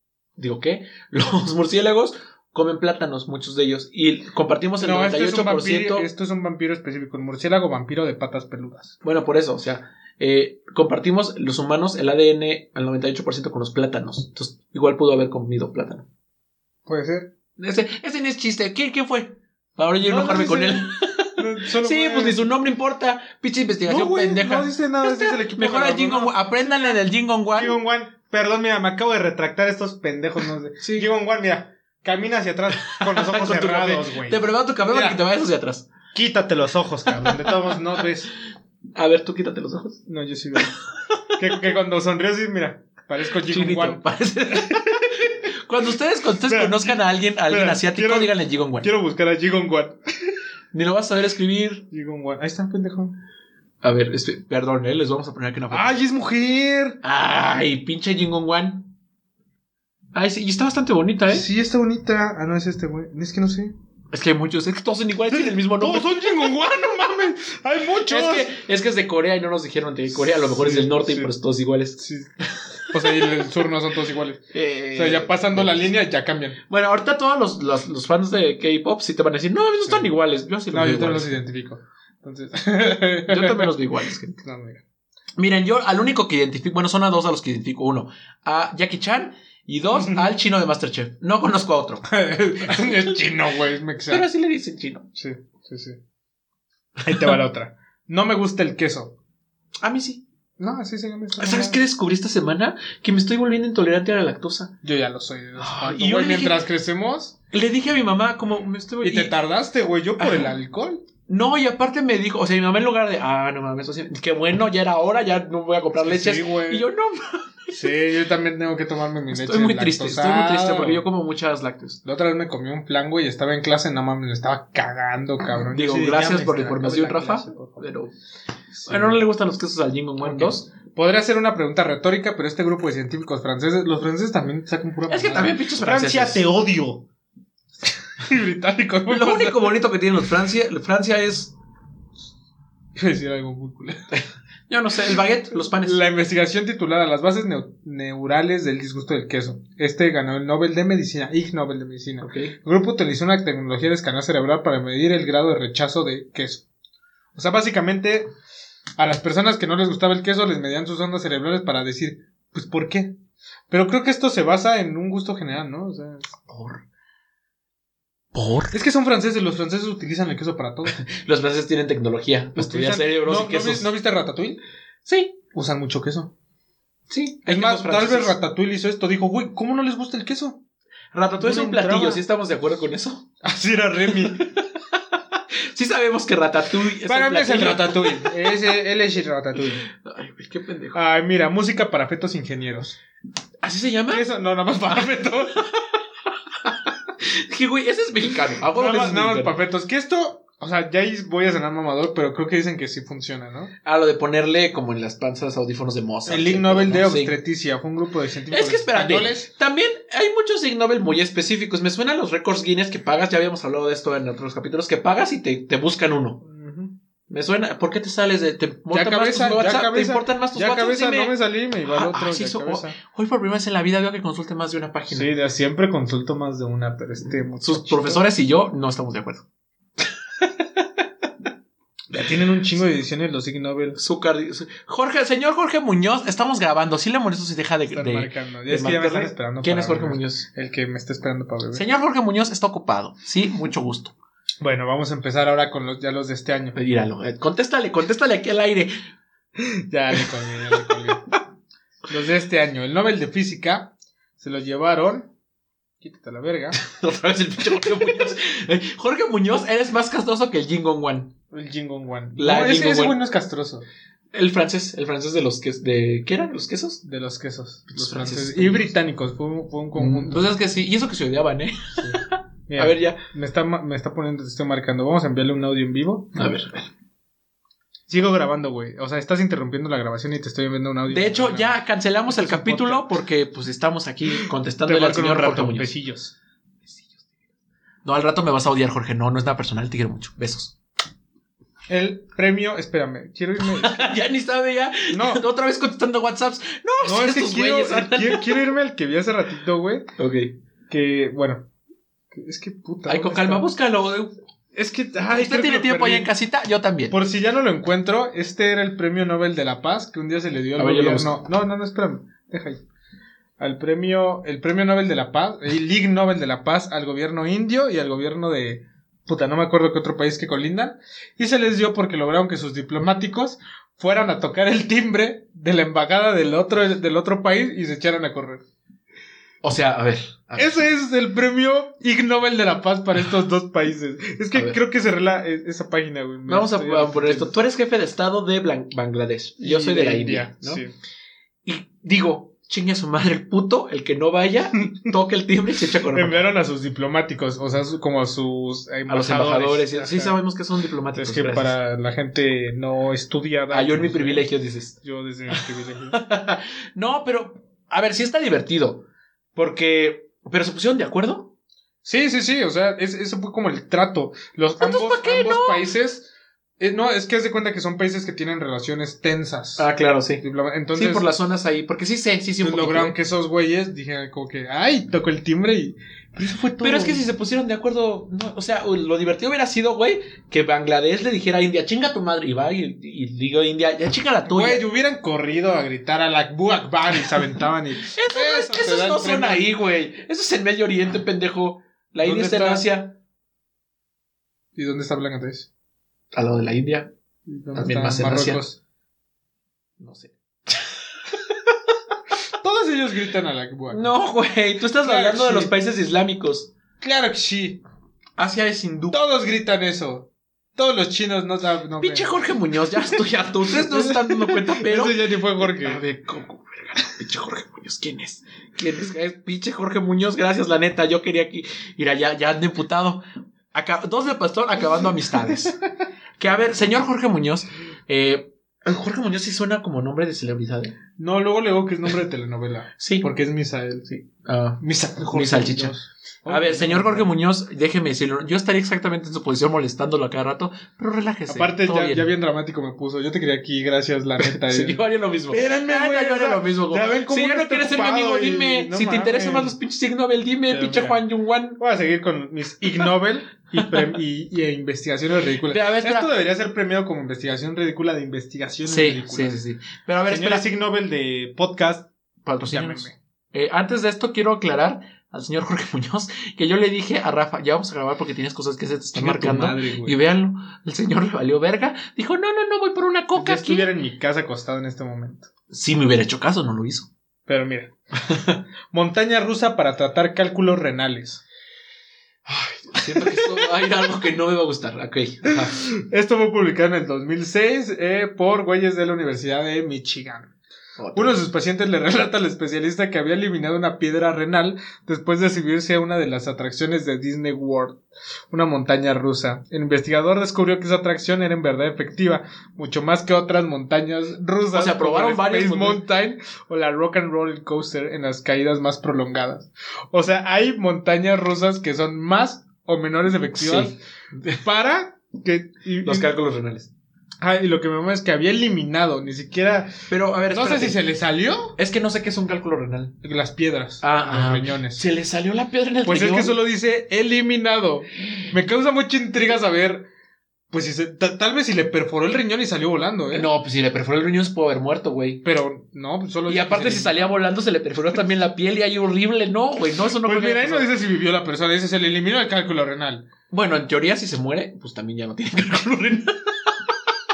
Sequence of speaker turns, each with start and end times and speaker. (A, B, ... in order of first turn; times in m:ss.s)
0:00.4-0:06.1 A
0:04.8-0:09.0 B
0:09.0-0:16.1 A
0:16.9-0:17.3 B
0:17.6-0:27.8 A
0:20.0-0:22.4 B
0:23.9-0:27.0 B
0:27.6-0:35.2 B
0:30.8-0:31.1 A
0:32.8-0:35.9 A
0:36.1-0:38.3 B
0:37.3-0:38.0 A
0:39.0-0:40.0 A
0:40.1-0:40.7 B
0:40.6-0:41.6 A
0:41.4-0:45.3 B
0:43.5-0:48.9 A
0:46.5-0:50.3 B
0:50.7-0:51.8 A
0:51.9-0:53.2 B
0:53.8-0:56.0 A
0:55.7-0:57.0 B
0:57.0-0:58.9 A
1:00.1-1:01.5 A
1:01.3-1:03.7 B
1:04.1-1:06.4 A
1:05.3-1:08.5 B
1:08.0-1:12.0 A
1:10.4-1:11.3 B
1:12.0-1:12.3 B
1:12.6-1:13.4 A
1:12.9-1:16.6 B
1:14.5-1:15.9 A
1:16.7-1:21.4 A
1:19.9-1:20.1 B
1:20.7-1:23.8 B
1:23.3-1:24.4 A
1:24.3-1:24.8 B
1:25.4-1:33.2 A
1:29.9-1:30.3 B
1:32.1-1:34.3 B
1:34.1-1:35.1 A
1:35.2-1:36.0 B
1:37.1-1:39.2 B
1:39.8-1:40.2 A
1:40.6-1:41.8 B
1:41.4-1:44.7 A
1:44.8-1:47.3 B
1:45.6-1:46.6 A
1:47.5-1:49.3 A
1:49.0-1:51.0 B
1:50.2-1:50.5 A
1:51.3-1:57.9 A
1:56.0-1:56.9 B
1:57.7-2:01.0 B
1:59.3-2:02.0 A
2:02.0-2:07.9 B
2:05.7-2:08.1 A
2:08.8-2:09.2 B
2:08.8-2:10.7 A
2:10.2-2:17.0 B
2:15.1-2:16.4 A
2:18.2-2:19.8 B
2:19.1-2:21.5 A
2:23.0-2:24.1 B
2:24.7-2:26.0 A
2:25.5-2:36.6 B
2:32.2-2:32.6 A
2:37.4-2:38.3 B
2:39.0-2:43.1 B
2:43.7-2:46.3 B
2:46.5-2:46.8 A
2:48.3-2:48.8 A
2:48.7-2:51.0 B
2:50.9-2:53.9 A
2:52.6-2:54.6 B
2:55.0-2:55.4 A
2:55.5-2:56.3 B
2:57.1-2:58.3 A
2:57.5-3:00.6 B
3:01.1-3:03.3 A
3:01.4-3:02.2 B
3:03.4-3:04.5 B
3:04.3-3:05.0 A
3:05.5-3:08.5 A
3:07.1-3:09.8 B
3:09.8-3:11.0 A
3:10.9-3:13.0 B
3:13.6-3:14.2 A
3:14.1-3:15.7 B
3:16.6-3:19.5 A
3:18.7-3:23.7 B
3:23.8-3:27.4 A
3:26.3-3:29.5 B
3:28.5-3:36.4 A
3:36.4-3:36.9 B
3:37.3-3:45.3 A
3:38.9-3:43.0 B
3:45.1-3:48.3 B
3:47.6-3:49.4 A
3:52.1-3:54.0 B
3:54.0-4:00.5 A
3:57.9-4:01.8 B
4:01.7-4:04.1 A
4:04.6-4:06.8 B
4:06.8-4:08.9 A
4:09.6-4:11.3 B
4:12.1-4:15.3 B
4:16.0-4:16.8 B
4:16.8-4:21.3 A
4:21.5-4:23.9 B
4:22.4-4:23.2 A
4:24.3-4:27.0 A
4:27.0-4:30.5 B
4:27.9-4:28.9 A
4:30.0-4:33.2 A
4:32.0-4:36.4 B
4:36.4-4:36.9 A
4:38.1-4:43.1 B
4:41.1-4:45.9 A
4:44.4-4:46.3 B
4:46.9-4:47.3 A
4:48.0-4:50.8 A
4:51.9-4:54.2 B
4:53.6-4:58.6 A
4:55.1-4:55.4 B
4:57.0-5:00.1 B
5:00.2-5:00.6 A
5:00.9-5:01.7 B
5:02.3-5:03.7 B
5:03.1-5:04.3 A
5:04.8-5:06.3 B
5:05.3-5:07.2 A
5:07.1-5:12.8 B
5:10.8-5:11.4 A
5:13.6-5:28.6 B
5:29.6-5:30.8 A
5:30.6-5:37.5 B
5:34.5-5:34.8 A
5:36.5-5:40.8 A
5:39.6-5:40.9 B
5:41.6-5:46.4 A
5:46.1-5:50.4 B
5:49.1-5:51.8 A
5:51.2-5:54.5 B
5:53.7-5:55.0 A
5:55.0-5:56.2 B
5:55.5-6:01.5 A
6:02.0-6:09.9 B
6:04.8-6:05.9 A
6:09.8-6:10.4 A
6:10.4-6:11.3 B
6:10.9-6:13.2 A
6:12.6-6:17.2 B
6:16.8-6:24.8 A
6:24.5-6:29.7 B
6:28.0-6:33.2 A
6:32.2-6:32.9 B
6:34.8-6:35.7 B
6:36.3-6:37.1 A
6:37.5-6:38.8 B
6:37.7-6:38.6 A
6:40.0-6:41.7 A
6:42.6-6:44.1 B
6:43.9-6:46.7 A
6:45.0-6:45.7 B
6:47.0-6:47.8 B
6:48.4-6:49.2 A
6:49.1-6:52.4 B
6:52.0-7:05.8 A
6:53.0-6:56.0 B
7:06.4-7:11.0 A
7:11.2-7:14.3 B
7:13.0-7:13.3 A
7:14.4-7:22.3 A
7:14.8-7:17.3 B
7:21.5-7:29.8 B
7:24.4-7:31.8 A
7:30.7-7:31.2 B
7:31.8-7:39.6 B
7:35.6-7:36.3 A
7:38.8-7:40.7 A
7:40.2-7:42.1 B
7:42.4-7:53.9 A
7:42.6-7:43.2 B
7:49.1-7:50.2 B
7:53.4-7:55.5 B
7:55.7-7:57.1 A
7:57.5-7:57.9 B
7:58.2-7:58.6 A
7:58.9-8:01.4 B
8:02.5-8:05.8 A
8:03.0-8:03.7 B
8:05.5-8:10.5 B
8:11.0-8:11.4 A
8:11.2-8:34.0 B
8:24.7-8:26.0 A
8:33.6-8:34.6 A
8:34.6-8:36.3 B
8:36.0-8:36.9 A
8:37.4-8:39.9 B
8:40.1-8:41.0 A
8:40.5-8:41.8 B
8:41.8-8:43.2 A
8:43.2-8:45.0 B
8:44.0-8:46.6 A
8:46.0-8:50.1 B
8:50.7-8:53.5 B
8:53.3-8:55.4 A
8:55.4-8:57.3 B
8:56.5-9:00.9 A
9:00.2-9:03.3 B
9:03.5-9:06.9 A